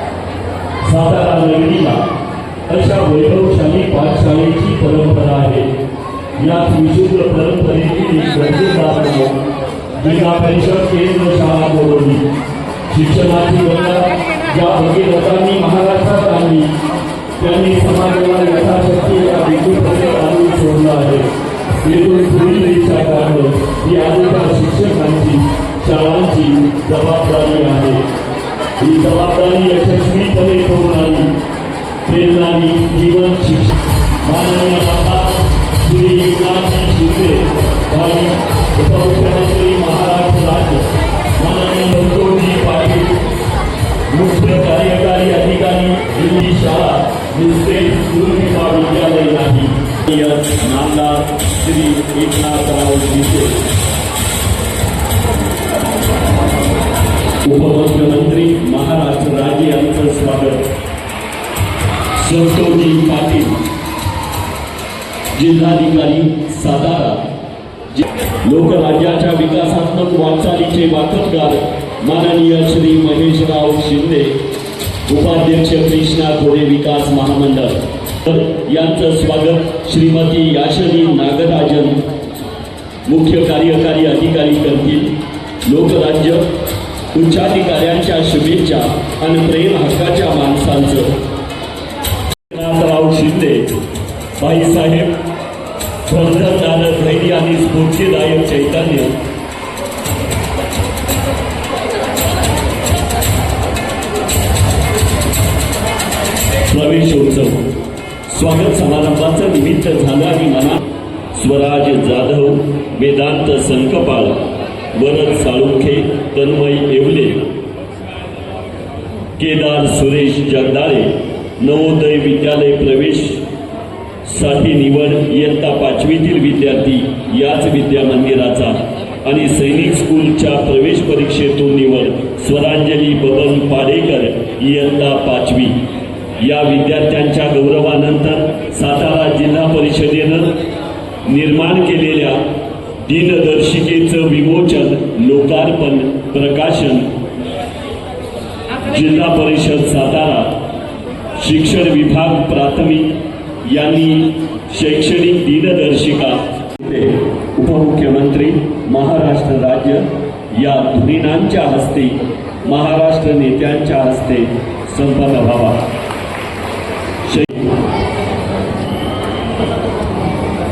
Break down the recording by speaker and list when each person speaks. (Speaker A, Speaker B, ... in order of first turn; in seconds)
Speaker A: 0.8-2.1, 2.7-5.7, 6.4-9.4, 10.0-12.2, 12.9-16.7, 17.4-28.1, 28.8-31.4, 32.0-43.2, 44.1-53.6, 57.4-60.7, 62.2-63.6, 65.3-67.3, 67.9-74.4, 75.1-82.1, 83.1-86.6, 87.1-91.2, 92.5-93.8, 94.4-95.3, 96.1-99.2, 106.6-107.7, 108.3-117.5, 119.4-123.5, 124.2-135.8, 136.4-140.6, 141.2-142.5, 143.0-147.1, 148.8-150.6, 151.3-165.9, 167.2-167.8